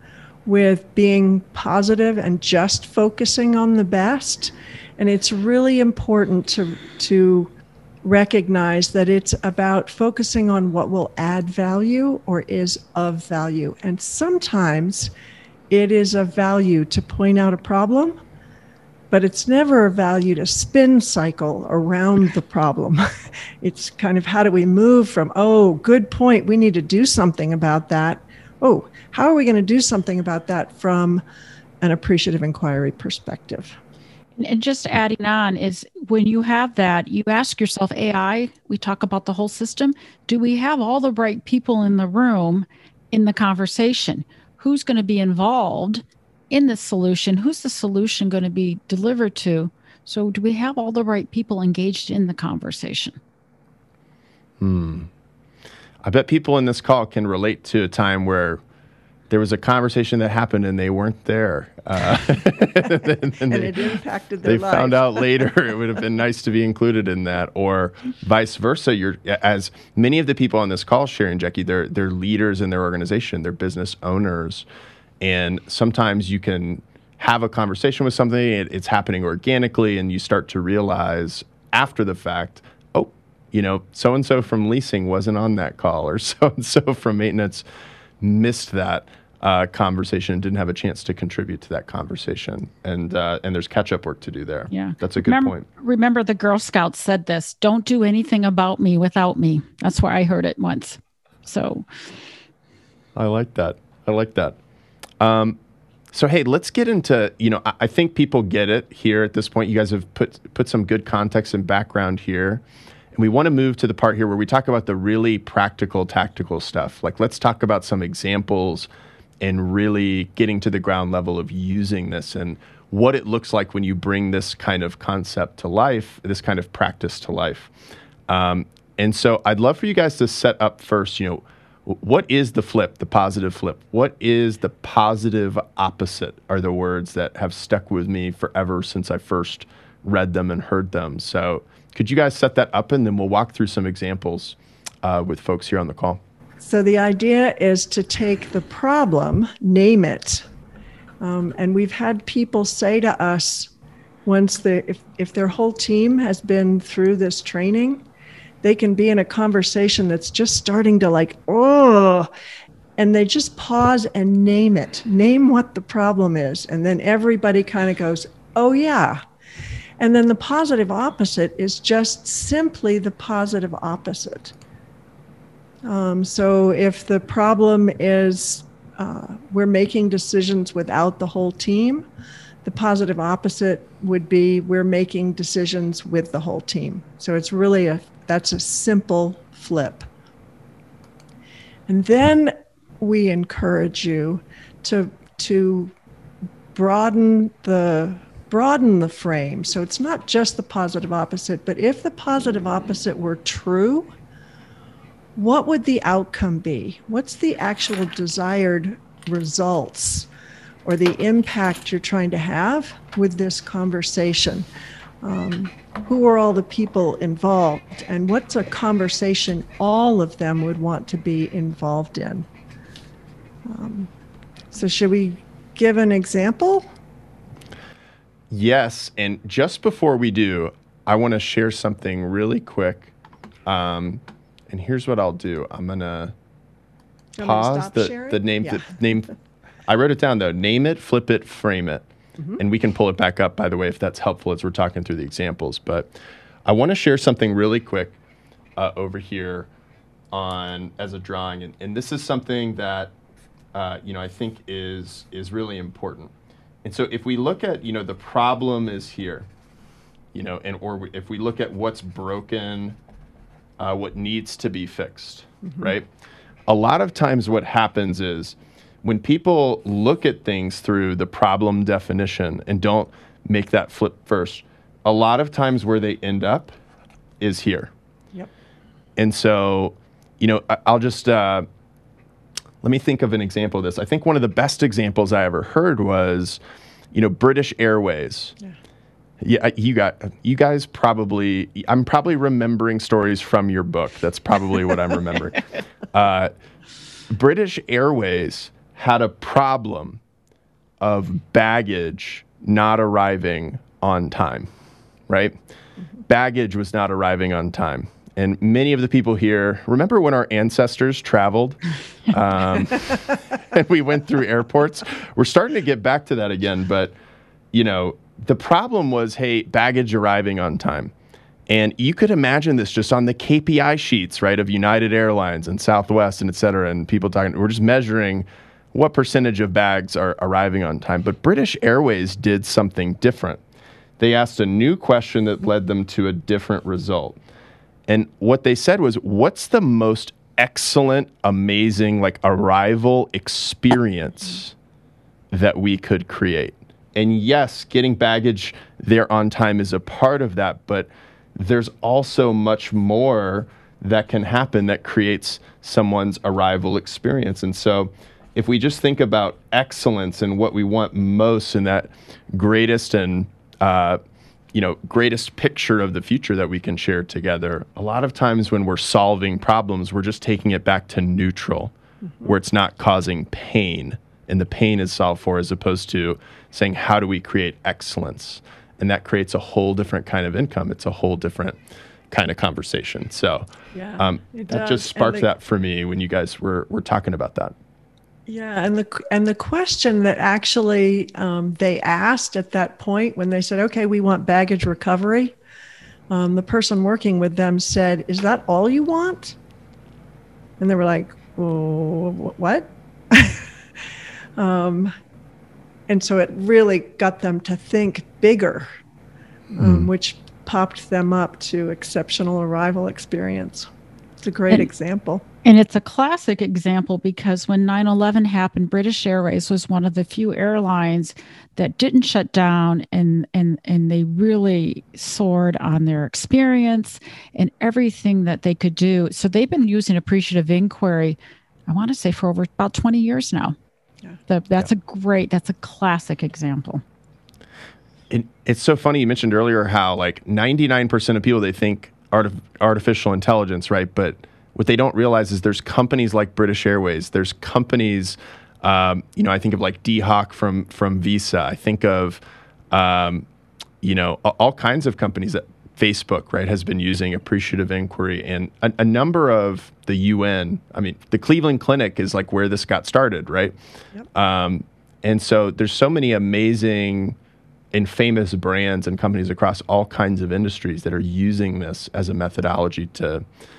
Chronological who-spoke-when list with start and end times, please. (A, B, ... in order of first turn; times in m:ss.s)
0:00.5-0:15.1 A
0:15.7-0:18.2 A
0:19.1-0:23.0 A
0:23.6-0:31.2 A
0:31.8-0:33.8 A
0:34.4-0:53.2 B
0:54.6-0:55.1 C
0:56.0-0:58.6 C
0:59.3-1:03.8 C
1:03.5-1:05.3 A
1:04.4-1:14.6 C
1:15.2-1:27.6 C
1:28.2-1:35.7 C
1:34.7-1:41.9 B
1:43.2-1:44.6 C
1:45.2-1:45.6 C
1:46.1-1:52.6 C
1:53.2-1:58.9 C
1:59.4-2:07.7 C
2:08.3-2:26.2 C
2:26.6-2:30.4 A
2:31.2-2:33.7 A
2:34.3-2:38.0 A
2:38.6-2:42.3 A
2:43.0-2:49.2 A
2:50.0-2:54.5 A
2:55.8-3:02.1 A
3:02.6-3:10.0 A
3:11.9-3:15.9 A
3:16.8-3:24.1 A
3:25.4-3:30.3 A
3:30.8-3:34.7 A
3:35.2-3:42.5 A
3:43.7-3:44.1 A
3:44.7-3:46.9 A
3:48.5-3:53.1 C
3:53.6-3:56.3 C
3:57.4-3:58.9 A
3:57.4-3:59.3 C
3:59.9-4:02.1 C
4:02.6-4:06.1 C
4:06.6-4:08.2 C
4:08.8-4:09.7 C
4:10.3-4:13.1 C
4:13.7-4:16.3 C
4:16.8-4:19.5 C
4:20.3-4:23.0 C
4:23.8-4:26.1 C
4:26.7-4:36.8 C
4:37.4-4:37.9 C
4:39.2-4:41.7 C
4:42.8-4:46.6 C
4:47.1-4:48.5 C
4:49.4-4:56.5 C
4:57.3-5:00.2 C
5:01.0-5:04.7 C
5:05.3-5:05.6 C
5:06.3-5:17.1 C
5:17.7-5:21.1 C
5:21.7-5:33.6 C
5:34.2-5:37.4 C
5:38.1-5:44.8 C
5:45.5-6:04.2 C
6:04.7-6:21.8 C
6:22.3-6:23.7 C
6:23.9-6:25.5 A
6:24.2-6:27.8 C
6:28.5-6:35.6 A
6:36.3-6:39.6 A
6:40.8-6:43.7 A
6:44.6-6:45.1 A
6:46.1-6:48.9 A
6:49.8-6:53.9 A
6:49.8-6:50.1 C
6:54.4-6:55.4 A
6:55.6-7:11.4 B
7:11.9-7:13.8 B
7:14.5-7:17.0 B
7:18.3-7:33.5 C
7:34.0-7:43.8 C
7:44.3-7:47.4 C
7:47.9-7:53.4 C